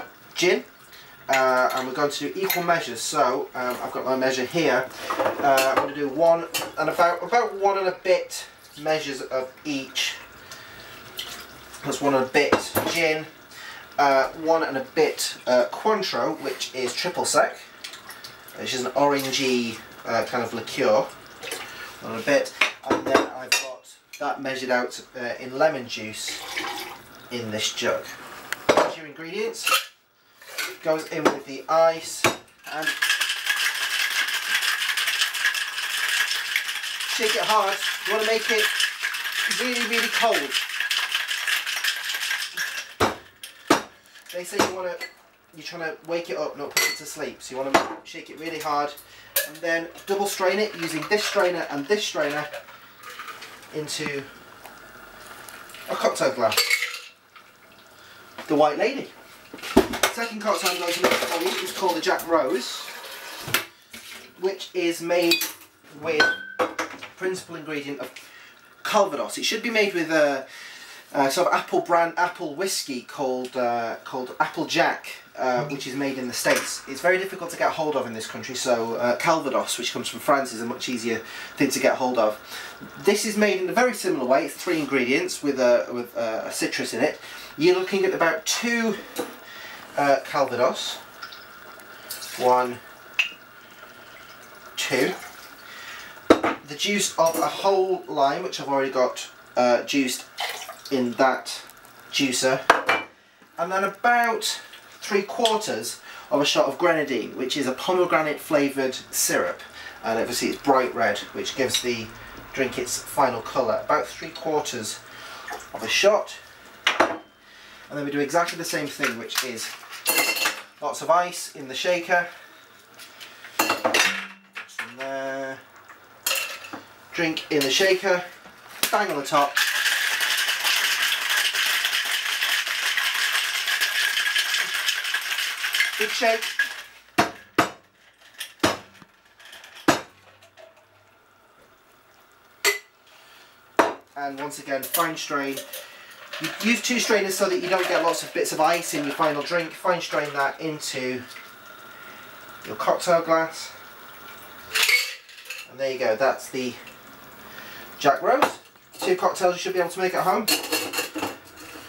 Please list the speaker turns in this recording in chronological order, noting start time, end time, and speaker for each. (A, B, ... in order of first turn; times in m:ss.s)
0:00.3-0:00.7 A
0:01.3-0:10.2 A
0:11.8-0:13.3 A
0:14.0-0:17.7 A
0:18.6-0:21.1 A
0:22.0-0:26.4 A
0:27.3-0:28.2 A
0:28.7-0:29.7 A
0:30.8-0:33.0 A
0:37.1-0:38.8 A
0:39.4-0:40.6 A
0:44.3-0:52.5 A
0:53.7-0:54.3 A
0:55.9-0:56.8 A
0:58.5-0:59.1 A
1:00.0-1:02.9 A
1:04.4-1:06.5 A
1:07.1-1:08.2 A
1:08.8-1:10.5 A
1:11.1-1:29.2 A
1:29.9-1:31.0 A
1:32.4-1:32.8 A
1:34.8-1:35.2 A
1:36.6-1:40.3 A
1:40.9-1:42.9 A
1:43.6-1:55.0 A
1:55.7-1:56.4 A
1:57.9-1:59.7 A
2:00.8-2:02.3 A
2:04.6-2:05.6 A
2:07.1-2:08.3 A
2:08.8-2:09.7 A
2:16.0-2:16.6 A
2:24.2-2:25.6 A
2:26.4-2:31.2 A
2:32.6-2:33.8 A
2:35.7-2:36.8 A
2:38.0-2:40.7 A